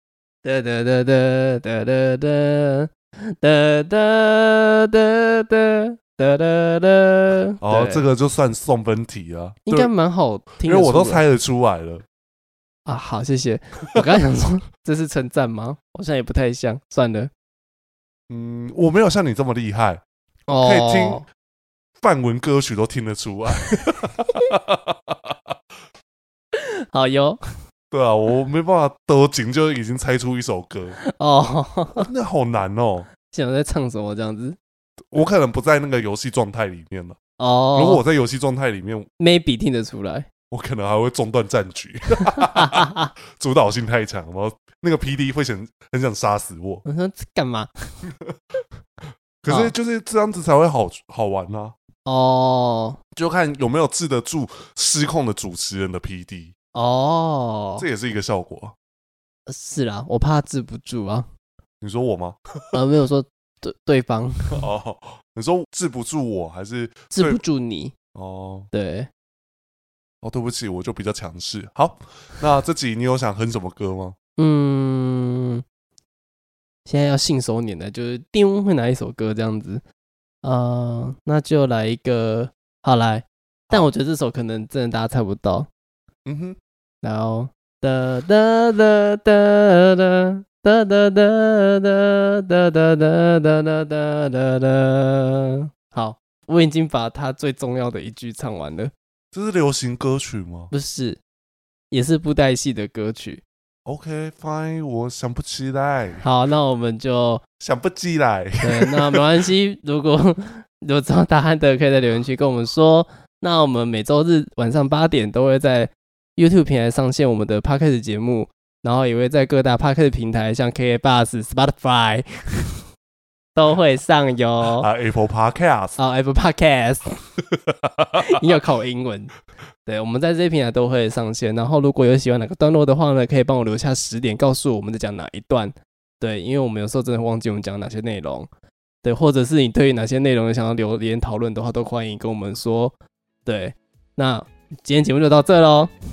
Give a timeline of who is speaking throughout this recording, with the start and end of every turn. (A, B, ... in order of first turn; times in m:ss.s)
0:00.4-0:08.0 A
0:07.6-0:09.9 B
0:09.7-0:11.2 A
0:10.6-0:12.0 B
0:12.9-0:17.3 A
0:18.3-0:20.0 B
0:20.5-0:21.2 A
0:20.6-0:21.3 B
0:22.0-0:25.6 B
0:26.5-0:27.4 A
0:27.9-0:31.0 B
0:31.1-0:32.1 A
0:32.0-0:33.1 B
0:33.3-0:34.6 A
0:35.1-0:37.2 B
0:37.4-0:38.0 A
0:37.7-0:39.1 B
0:39.2-0:40.3 A
0:40.5-0:46.8 B
0:42.3-0:43.1 A
0:46.8-0:47.7 A
0:49.4-0:51.7 B
0:49.5-0:49.7 A
0:52.0-0:53.0 A
0:53.1-0:56.5 B
0:56.7-0:57.9 A
0:57.8-0:58.7 B
0:59.5-1:01.3 A
1:01.8-1:02.4 B
1:02.7-1:04.6 A
1:04.5-1:07.4 B
1:07.1-1:08.0 A
1:08.2-1:08.7 B
1:08.7-1:09.1 A
1:10.2-1:14.2 B
1:14.4-1:15.6 A
1:16.9-1:19.8 A
1:20.4-1:25.7 A
1:26.3-1:26.6 B
1:27.0-1:38.9 A
1:39.3-1:40.7 B
1:40.7-1:41.2 A
1:41.9-1:43.4 A
1:43.9-1:46.2 B
1:46.2-1:47.4 A
1:47.6-1:49.2 B
1:48.6-2:02.8 A
2:03.6-2:04.9 A
2:04.8-2:06.0 B
2:06.0-2:07.2 A
2:07.6-2:08.2 B
2:08.2-2:09.3 A
2:09.9-2:18.5 A
2:19.0-2:23.0 A
2:23.4-2:25.9 A